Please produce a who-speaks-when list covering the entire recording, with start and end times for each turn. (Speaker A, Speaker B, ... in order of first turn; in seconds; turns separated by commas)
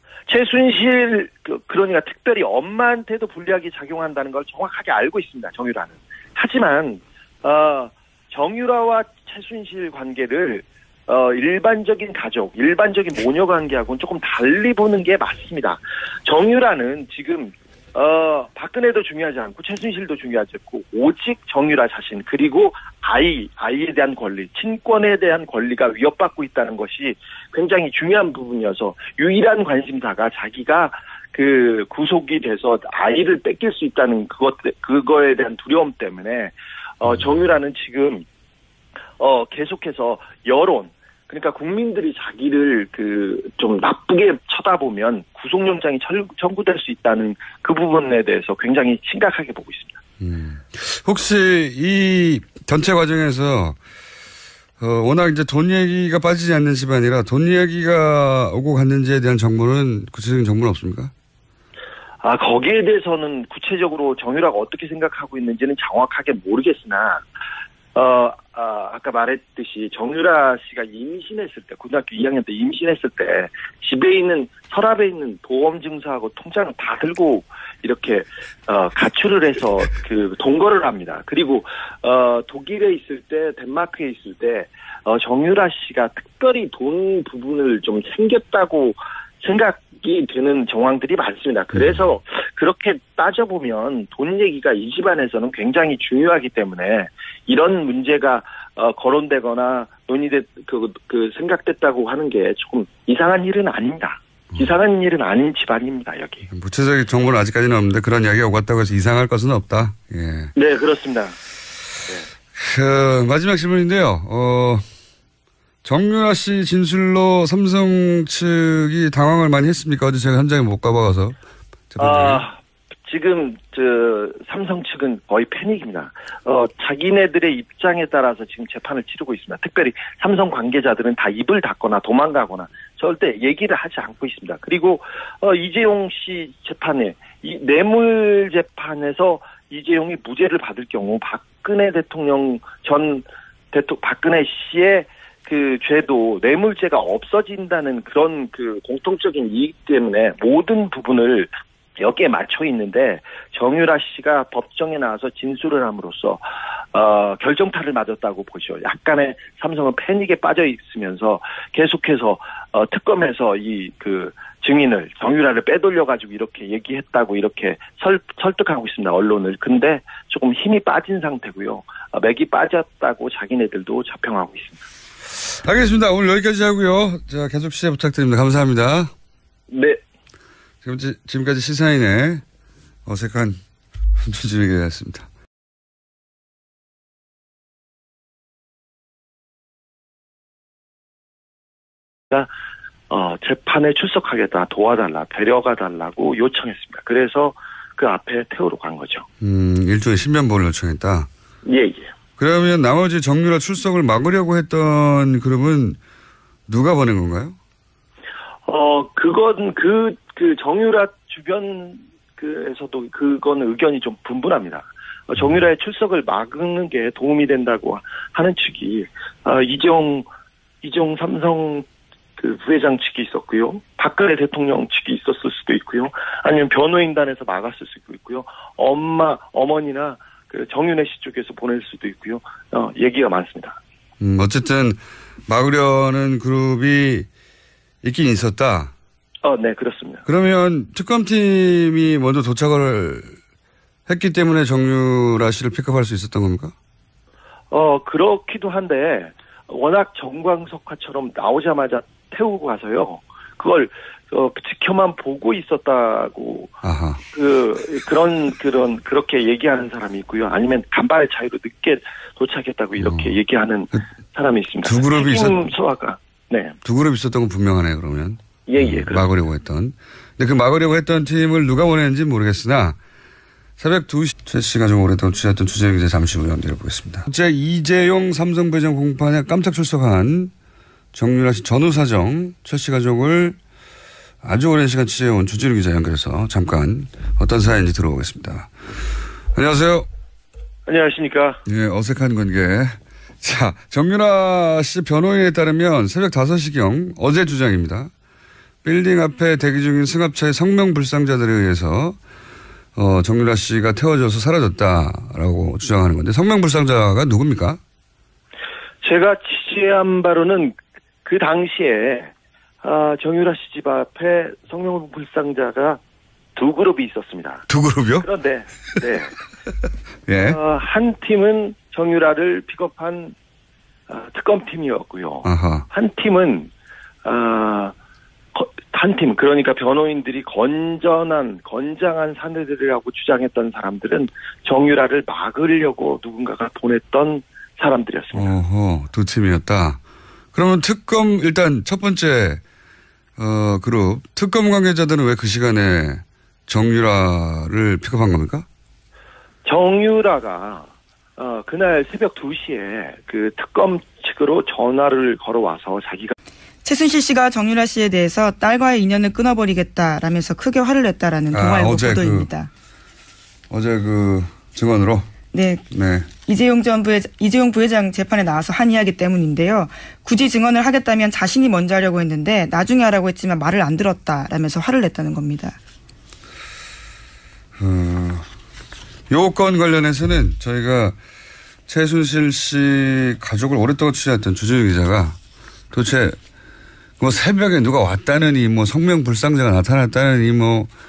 Speaker A: 0.3-38.2, Speaker A: 39.2-50.0, Speaker B: 50.2-53.8, Speaker B: 54.8-61.1, Speaker A: 62.2-67.2, Speaker A: 67.9-106.5, Speaker B: 106.5-110.5, Speaker A: 110.5-111.4, Speaker B: 112.5-114.8, Speaker B: 115.8-121.3, Speaker B: 121.9-122.4, Speaker A: 122.0-174.8, Speaker B: 175.4-179.1, Speaker A: 179.7-180.0, Speaker B: 180.8-182.4, Speaker B: 183.1-183.6, Speaker B: 184.2-185.3, Speaker A: 193.1-199.2, Speaker B: 199.4-201.3, Speaker A: 201.6-202.1, Speaker B: 202.4-206.0, Speaker B: 206.7-207.6, Speaker A: 208.7-220.3, Speaker A: 220.8-221.9, Speaker A: 222.4-233.8, Speaker B: 234.2-237.3, Speaker B: 238.0-238.9, Speaker A: 239.4-240.2, Speaker B: 240.2-243.4, Speaker B: 244.1-246.7, Speaker A: 247.7-256.8, Speaker B: 256.8-257.2, Speaker A: 257.3-266.8, Speaker B: 263.0-263.3, Speaker B: 264.8-265.6, Speaker B: 266.8-273.0, Speaker A: 268.7-269.3, Speaker B: 273.8-280.5, Speaker B: 281.1-283.6, Speaker B: 284.4-288.7, Speaker B: 289.5-290.1, Speaker A: 290.9-291.6, Speaker B: 291.6-298.1, Speaker B: 298.8-302.2, Speaker B: 302.9-307.8, Speaker A: 309.0-312.3, Speaker A: 312.8-316.0, Speaker A: 316.6-317.6, Speaker B: 317.7-318.2, Speaker A: 318.2-319.4, Speaker B: 320.3-320.6, Speaker A: 320.4-323.3, Speaker A: 324.1-326.7, Speaker B: 325.4-325.9, Speaker A: 327.2-327.9, Speaker A: 328.5-338.6, Speaker B: 338.3-340.0, Speaker B: 340.5-342.6, Speaker B: 343.4-348.6, Speaker A: 349.6-356.3, Speaker C: 356.8-362.7, Speaker B: 361.5-362.5, Speaker B: 363.7-365.3, Speaker C: 365.5-365.8, Speaker B: 365.9-366.3, Speaker C: 366.4-375.8, Speaker B: 377.8-378.5, Speaker B: 379.3-381.2, Speaker B: 381.9-385.4, Speaker B: 385.9-386.4, Speaker B: 387.2-390.9